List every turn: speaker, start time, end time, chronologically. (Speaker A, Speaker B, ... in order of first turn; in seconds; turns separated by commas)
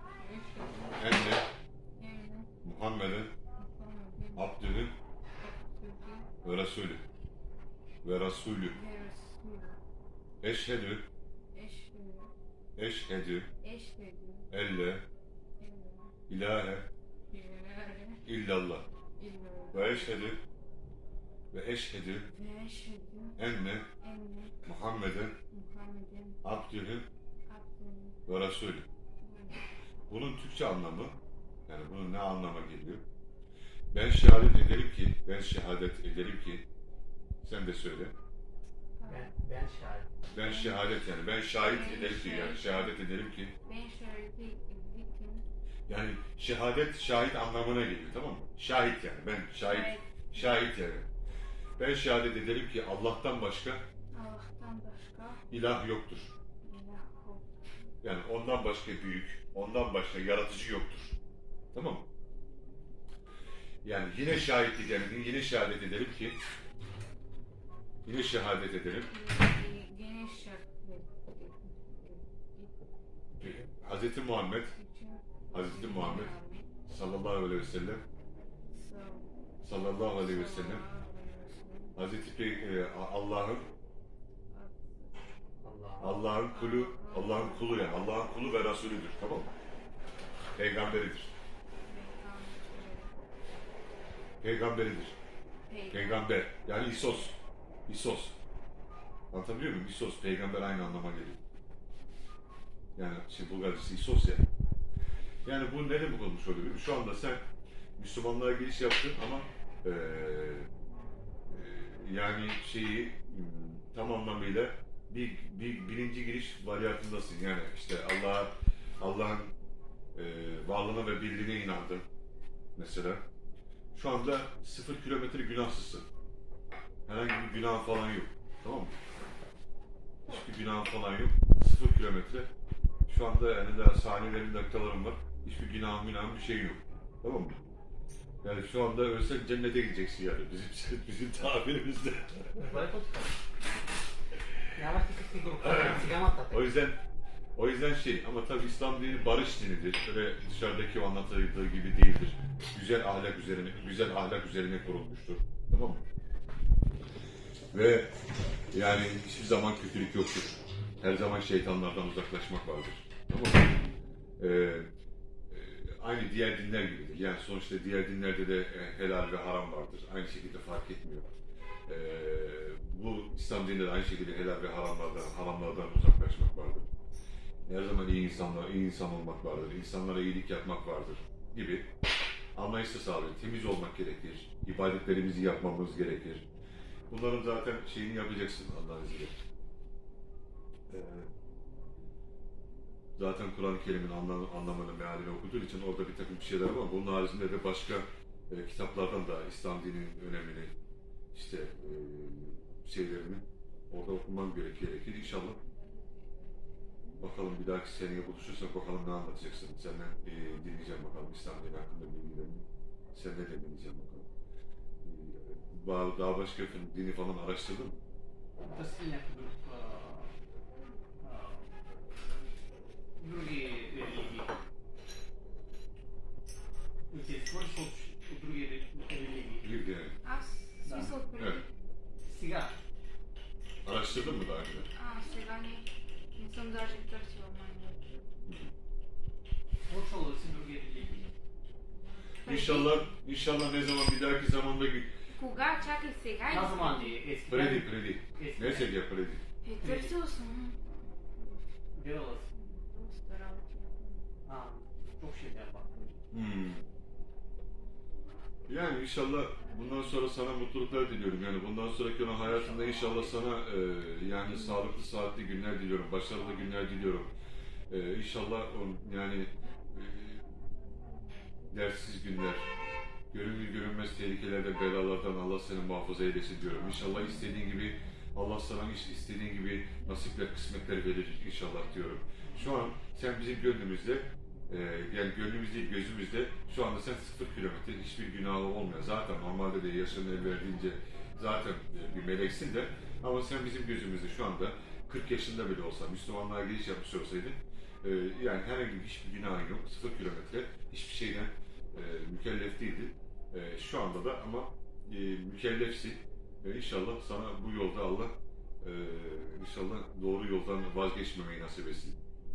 Speaker A: 0.2-1.2, Speaker B: 1.0-1.4, Speaker A: 2.0-2.5, Speaker B: 2.6-3.3, Speaker A: 3.6-4.5, Speaker B: 4.3-4.9, Speaker A: 5.4-6.3, Speaker B: 6.4-7.0, Speaker B: 8.0-8.8, Speaker A: 8.7-9.8, Speaker B: 10.4-11.1, Speaker A: 11.5-12.3, Speaker B: 12.8-13.5, Speaker A: 13.6-14.5, Speaker B: 14.5-15.0, Speaker A: 15.6-16.1, Speaker B: 16.3-16.9, Speaker A: 17.3-18.2, Speaker B: 18.2-18.9, Speaker A: 19.2-20.3, Speaker B: 19.7-20.4, Speaker B: 21.5-22.3, Speaker A: 22.3-23.4, Speaker B: 23.4-23.8, Speaker A: 24.0-24.6, Speaker B: 24.6-25.3, Speaker A: 25.5-26.4, Speaker B: 26.4-27.1, Speaker A: 27.5-28.2, Speaker B: 28.3-28.9, Speaker A: 29.2-29.6, Speaker B: 30.1-31.1, Speaker B: 31.7-33.0, Speaker B: 33.9-36.6, Speaker B: 37.4-38.1, Speaker A: 39.0-39.3, Speaker C: 39.1-40.1, Speaker B: 40.3-43.5, Speaker A: 40.4-43.0, Speaker A: 43.6-45.4, Speaker B: 45.9-51.0, Speaker A: 49.6-50.6, Speaker B: 51.8-53.8, Speaker A: 54.1-55.4, Speaker B: 55.5-56.3, Speaker A: 56.6-57.5, Speaker B: 58.0-61.2, Speaker B: 61.7-62.0, Speaker B: 63.8-66.3, Speaker B: 68.0-69.1, Speaker A: 69.0-72.7, Speaker B: 73.4-74.7, Speaker A: 74.7-76.7, Speaker B: 75.5-76.3, Speaker B: 76.9-78.0, Speaker A: 78.7-82.0, Speaker B: 79.6-80.8, Speaker B: 82.0-83.7, Speaker A: 84.5-85.2, Speaker C: 85.6-86.2, Speaker B: 86.0-89.5, Speaker A: 86.2-87.8, Speaker B: 90.5-91.3, Speaker A: 91.8-93.2, Speaker B: 94.4-95.1, Speaker A: 95.7-96.3, Speaker B: 95.9-98.3, Speaker B: 99.3-101.4, Speaker B: 103.0-104.5, Speaker B: 105.4-107.4, Speaker B: 108.0-110.7, Speaker B: 111.5-119.5, Speaker B: 120.1-122.0, Speaker B: 122.8-123.2, Speaker B: 123.9-126.0, Speaker B: 127.1-128.9, Speaker B: 130.3-132.5, Speaker B: 133.1-137.6, Speaker B: 138.4-142.8, Speaker C: 142.6-143.3, Speaker C: 144.8-146.7, Speaker B: 145.6-147.0, Speaker B: 147.6-156.0, Speaker B: 157.7-158.1, Speaker B: 158.7-163.7, Speaker B: 164.4-164.9, Speaker B: 165.5-171.3, Speaker B: 171.9-176.9, Speaker B: 177.7-181.9, Speaker B: 182.5-186.4, Speaker B: 187.1-189.3, Speaker B: 190.9-191.3, Speaker B: 193.2-200.7, Speaker B: 201.3-205.6, Speaker B: 207.2-214.3, Speaker B: 215.0-218.0, Speaker C: 218.6-220.3, Speaker C: 221.2-221.7, Speaker C: 223.2-224.5, Speaker C: 227.1-229.7, Speaker B: 229.6-230.1, Speaker A: 230.2-231.7, Speaker C: 230.8-231.1, Speaker B: 231.4-231.6, Speaker C: 232.2-232.7, Speaker B: 233.8-234.9, Speaker A: 234.9-238.2, Speaker B: 238.4-238.7, Speaker C: 239.9-241.3, Speaker A: 242.4-243.2, Speaker B: 242.4-245.1, Speaker A: 245.3-247.2, Speaker C: 246.5-248.9, Speaker B: 247.5-249.4, Speaker A: 249.6-251.6, Speaker C: 249.8-250.1, Speaker C: 251.9-252.5, Speaker A: 252.5-254.2, Speaker C: 254.4-256.1, Speaker B: 256.3-256.8, Speaker B: 258.7-267.3, Speaker C: 262.3-263.4, Speaker B: 267.9-270.4, Speaker B: 271.7-272.7, Speaker B: 273.3-312.2